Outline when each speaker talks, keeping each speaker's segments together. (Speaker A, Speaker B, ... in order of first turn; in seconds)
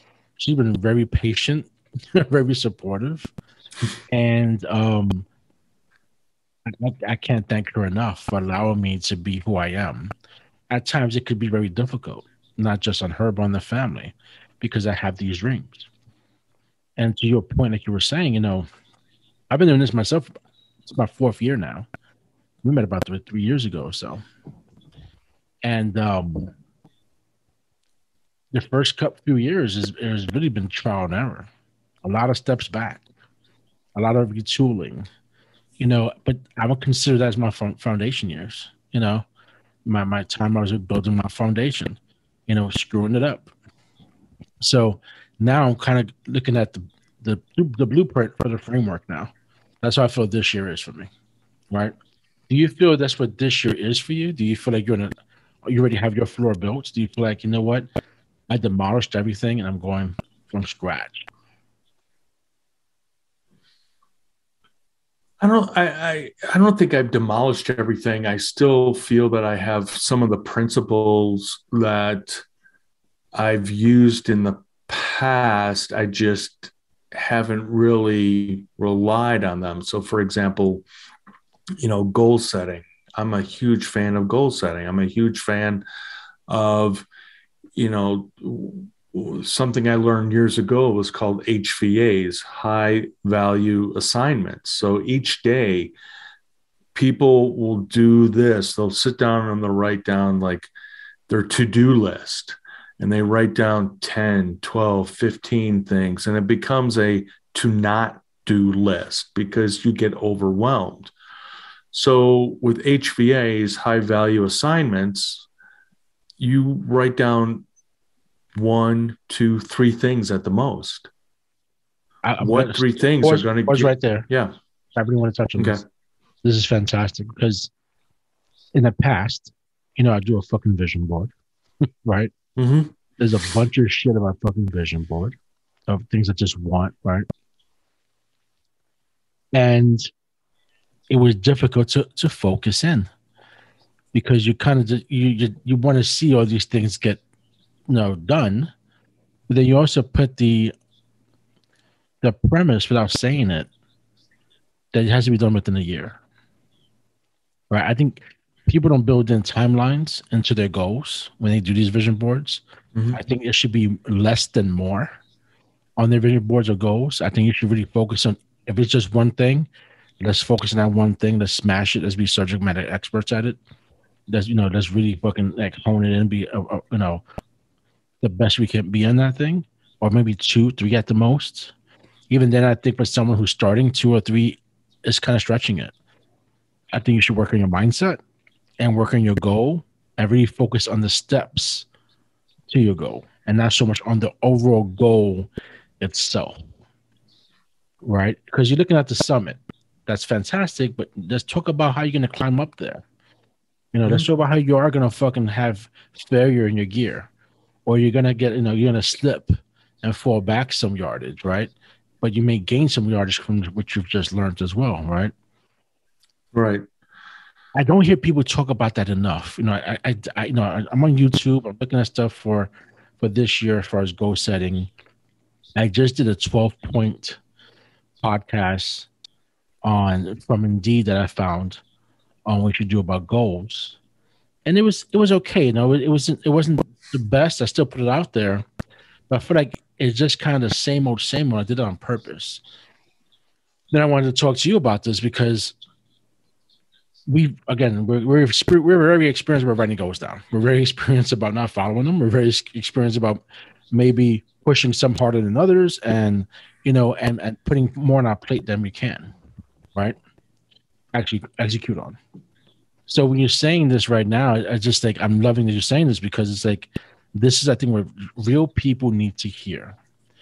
Speaker A: 0.4-3.3, 4.1-5.3, 6.7-10.1, 10.7-15.9, 17.0-18.7, 19.5-20.3, 20.8-21.9, 22.6-24.2, 25.6-26.5, 28.5-31.5, 32.0-33.0, 34.0-35.1, 35.8-39.2, 39.9-43.5, 44.6-51.1, 52.5-57.9, 58.5-61.3, 122.2-124.2, 124.9-125.8, 126.4-127.7, 128.7-131.3, 132.0-132.3, 133.2-135.3, 135.9-137.2, 139.5-140.1, 141.1-143.1, 144.1-147.2, 147.9-148.7, 149.5-150.7, 152.2-153.7, 154.9-156.2, 157.7-162.6, 163.1-165.1, 166.0-169.7, 170.2-173.6, 174.3-177.2, 178.2-181.7, 182.3-185.9, 186.9-188.2, 188.8-191.8, 192.7-195.5, 196.0-196.6, 198.0-203.0, 203.9-207.3, 207.8-215.3, 217.7-224.9, 225.8-227.4, 228.2-229.1, 229.8-231.8, 232.4-234.0, 234.7-238.7, 239.3-242.6, 243.9-245.8, 247.3-259.3, 261.1-262.2, 263.1-270.0
Speaker B: 65.4-72.4, 73.3-80.8, 81.8-85.8, 86.5-87.1, 87.8-95.9, 96.9-100.7, 101.3-111.1, 111.9-115.5, 116.4-117.7, 118.5-121.1, 122.4-124.5, 125.6-125.8, 132.6-132.9, 216.5-216.8